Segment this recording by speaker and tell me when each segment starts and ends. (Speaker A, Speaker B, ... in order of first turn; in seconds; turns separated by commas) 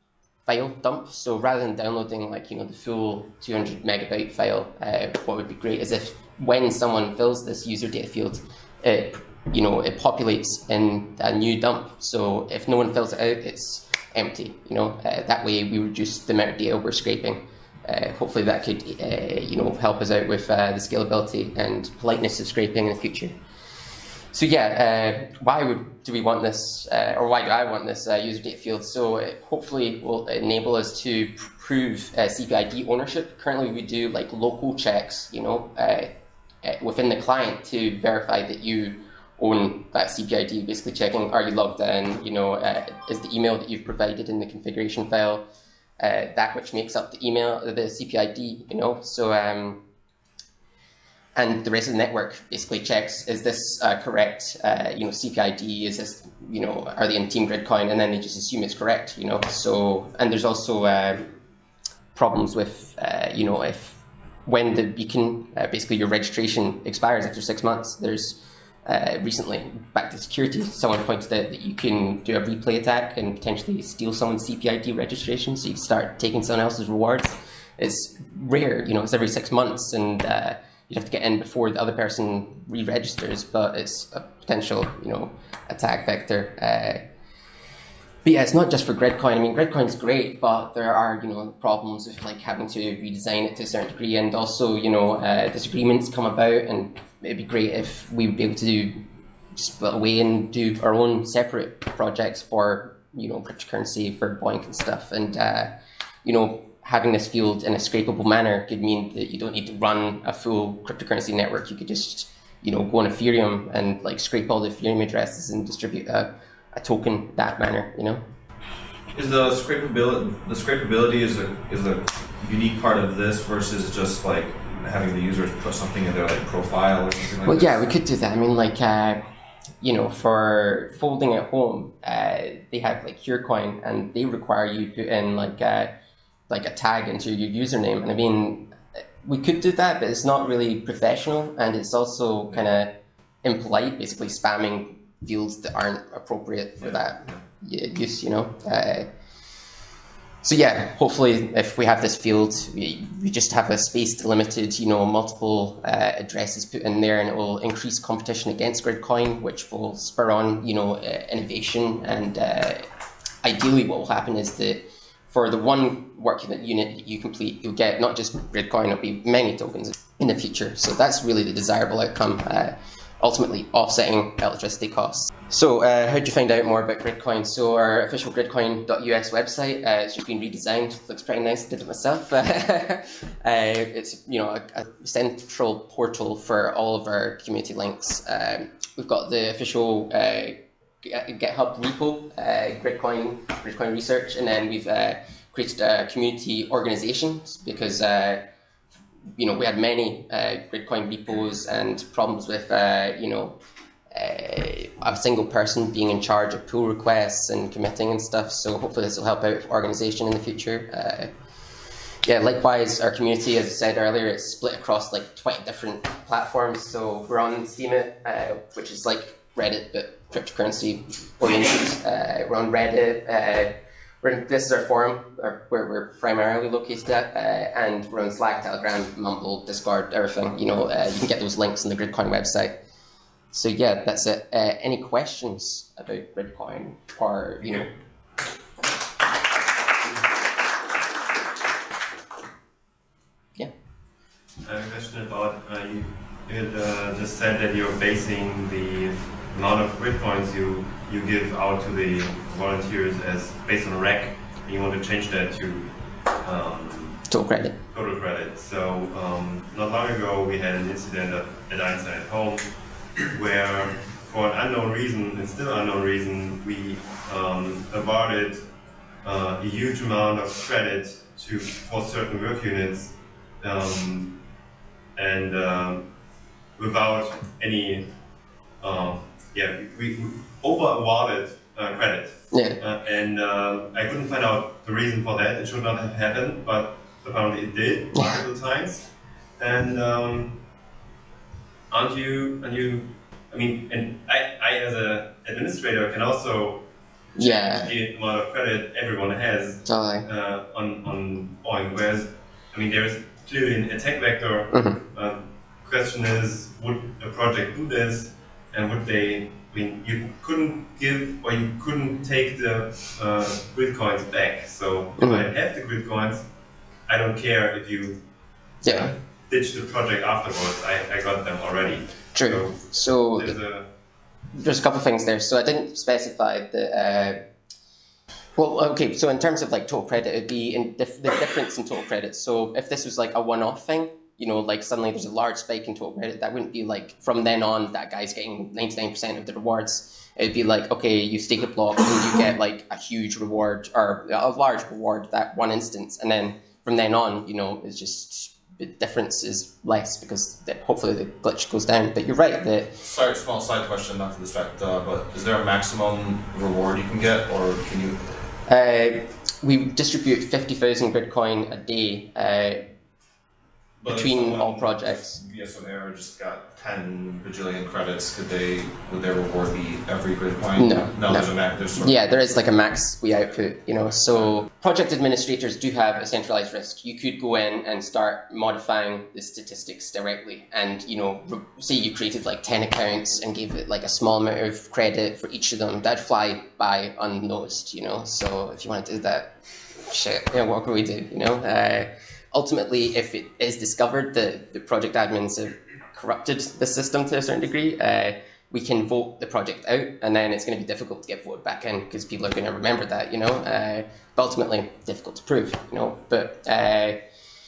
Speaker A: 0.5-23.4, Speaker A: 24.3-45.5, Speaker A: 46.0-49.8, Speaker A: 51.4-61.3, Speaker A: 62.1-87.0, Speaker A: 88.2-99.0, Speaker A: 99.6-105.7, Speaker A: 106.2-118.2, Speaker B: 119.1-127.8, Speaker A: 127.5-129.2, Speaker A: 129.8-135.9, Speaker A: 136.5-149.1, Speaker A: 150.4-162.9, Speaker A: 163.4-198.5, Speaker A: 199.4-203.6, Speaker A: 204.1-211.3, Speaker A: 212.2-232.8, Speaker A: 233.5-237.9, Speaker C: 244.6-257.3, Speaker A: 257.3-257.8, Speaker C: 257.9-268.6, Speaker C: 269.2-274.4, Speaker C: 275.1-276.1, Speaker C: 276.8-278.1, Speaker C: 278.8-290.6, Speaker A: 282.5-282.8, Speaker A: 288.1-288.4, Speaker C: 291.9-316.5, Speaker A: 297.4-297.9, Speaker A: 299.9-300.3, Speaker A: 304.7-305.0, Speaker A: 315.2-315.5, Speaker C: 317.1-318.2, Speaker A: 318.8-319.1, Speaker C: 318.8-323.9, Speaker A: 322.4-323.6, Speaker A: 324.5-327.4, Speaker A: 328.6-353.0, Speaker B: 353.0-358.2, Speaker A: 358.7-362.9, Speaker B: 364.0-372.2, Speaker A: 364.1-365.4, Speaker A: 370.8-389.5, Speaker A: 390.0-407.2